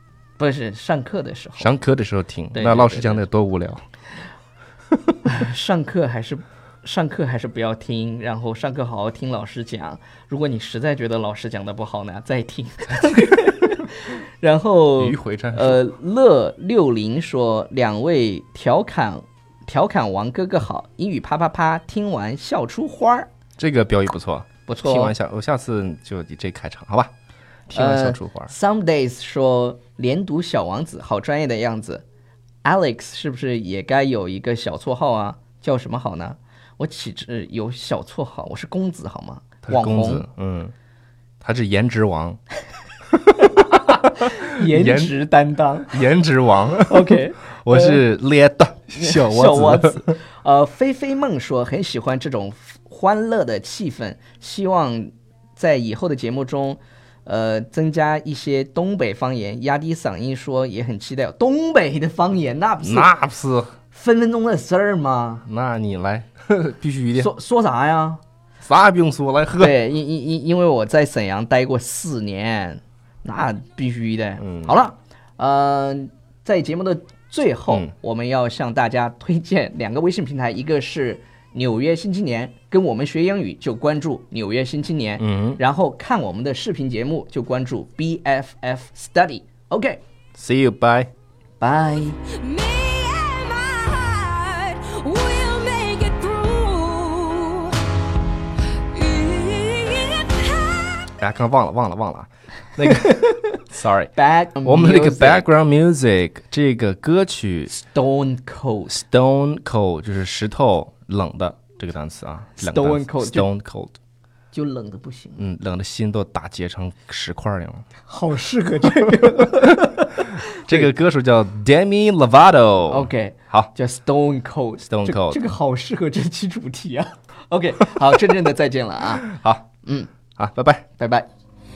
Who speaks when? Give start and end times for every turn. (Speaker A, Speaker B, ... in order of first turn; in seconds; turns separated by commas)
Speaker A: 0.4-1.7, Speaker B: 1.6-3.8, Speaker A: 2.5-3.2, Speaker A: 5.2-23.3, Speaker B: 15.0-15.8, Speaker B: 23.6-27.1, Speaker A: 24.7-25.1, Speaker B: 27.7-28.5, Speaker A: 27.7-32.0, Speaker A: 32.6-40.3, Speaker B: 39.7-40.7, Speaker B: 41.4-42.4, Speaker B: 43.4-45.1, Speaker A: 43.4-46.0, Speaker B: 45.9-50.2, Speaker A: 46.9-48.0, Speaker A: 49.0-63.1, Speaker B: 62.8-63.8, Speaker A: 63.9-65.5, Speaker B: 65.5-67.3, Speaker A: 67.2-68.2, Speaker B: 68.6-69.8, Speaker A: 69.6-90.0, Speaker B: 74.4-74.8, Speaker B: 85.2-85.6, Speaker B: 90.3-91.1, Speaker A: 91.6-92.2, Speaker C: 92.3-97.9, Speaker C: 98.7-101.1, Speaker B: 101.2-107.7, Speaker A: 102.8-103.6, Speaker A: 104.2-105.5, Speaker A: 107.7-109.0, Speaker B: 108.9-113.9, Speaker A: 112.6-113.5, Speaker A: 114.5-115.4, Speaker B: 115.4-117.8, Speaker A: 118.1-120.9, Speaker B: 119.2-119.8, Speaker B: 120.5-123.7, Speaker A: 122.9-129.3, Speaker B: 124.8-125.4, Speaker B: 129.3-129.7, Speaker A: 129.8-130.1, Speaker B: 130.4-130.9, Speaker A: 131.0-131.3